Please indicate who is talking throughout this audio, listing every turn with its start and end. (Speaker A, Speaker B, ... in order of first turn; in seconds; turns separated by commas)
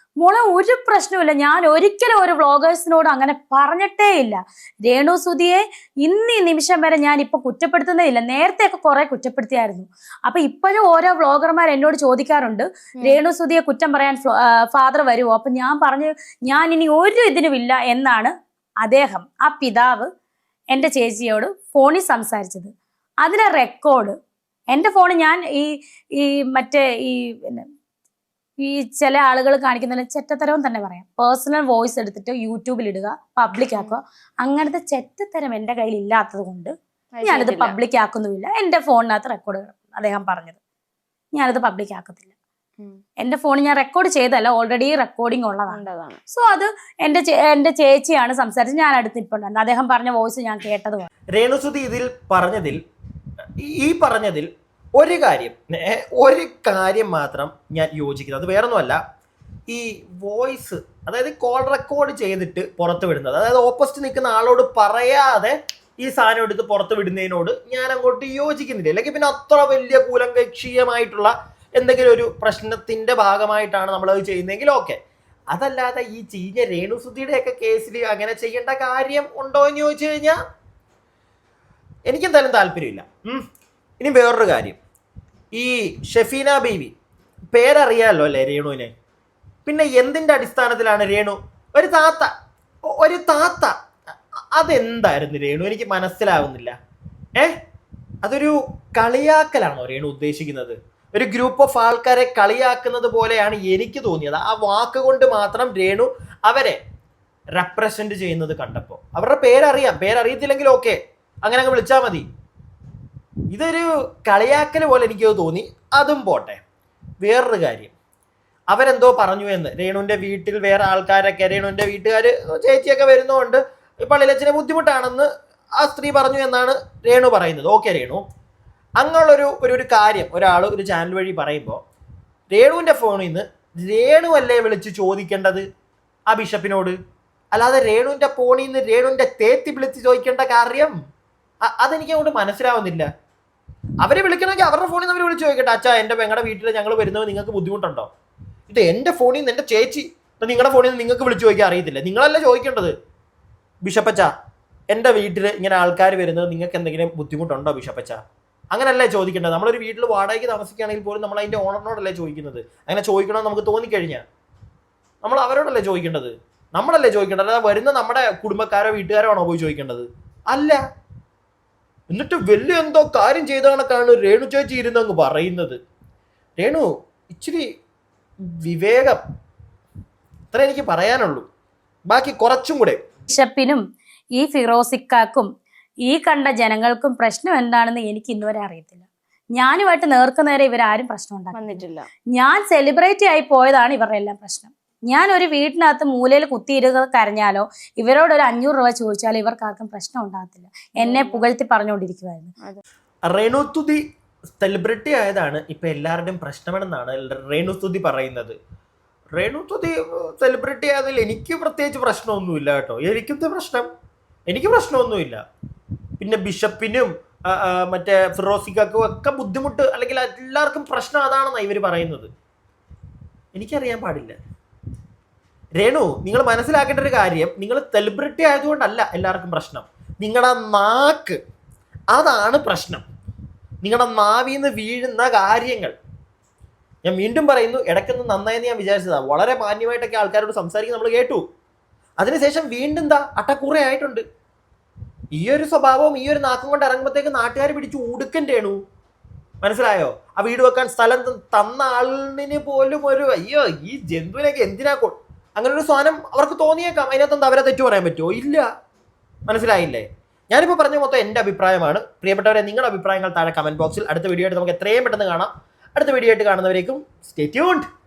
Speaker A: 0.2-20.1, Speaker A: 20.7-22.7, Speaker A: 23.2-24.1, Speaker A: 24.7-27.7, Speaker A: 28.6-36.7, Speaker B: 37.1-37.8, Speaker A: 37.2-40.6, Speaker A: 41.3-42.3, Speaker A: 43.2-51.1, Speaker B: 45.7-46.2, Speaker C: 51.3-52.8, Speaker C: 53.6-59.0, Speaker C: 59.7-75.0, Speaker C: 75.5-80.4, Speaker C: 82.1-83.4, Speaker C: 84.0-84.8, Speaker C: 85.5-86.9, Speaker C: 87.5-88.9, Speaker C: 89.7-92.3, Speaker C: 92.9-93.7, Speaker C: 94.5-96.7, Speaker C: 98.2-106.8, Speaker C: 107.6-112.2, Speaker C: 113.5-116.6, Speaker C: 117.2-117.9, Speaker C: 118.7-125.3, Speaker C: 125.8-128.2, Speaker C: 129.0-131.8, Speaker C: 132.5-135.6, Speaker C: 136.3-136.9, Speaker C: 137.5-140.9, Speaker C: 141.6-143.1, Speaker C: 144.0-148.1, Speaker C: 148.7-152.9, Speaker C: 153.8-154.3, Speaker C: 154.9-158.2, Speaker C: 158.7-164.2, Speaker C: 165.2-170.8, Speaker C: 172.1-175.8, Speaker C: 176.6-177.7, Speaker C: 178.5-179.2, Speaker C: 180.5-181.4, Speaker C: 182.1-183.0, Speaker A: 183.3-183.8, Speaker A: 184.3-185.5, Speaker A: 186.0-189.0, Speaker A: 189.5-191.8, Speaker B: 191.5-192.1, Speaker A: 192.3-202.5, Speaker B: 201.0-201.4, Speaker C: 203.3-204.0, Speaker C: 204.6-208.6, Speaker C: 209.4-213.9, Speaker C: 214.5-215.4, Speaker C: 216.2-222.3, Speaker C: 223.5-224.4, Speaker C: 225.8-231.4, Speaker C: 232.1-233.0, Speaker C: 233.8-235.9, Speaker C: 237.0-241.4, Speaker C: 242.2-244.2, Speaker C: 245.3-248.8, Speaker C: 249.6-258.7, Speaker C: 259.5-267.9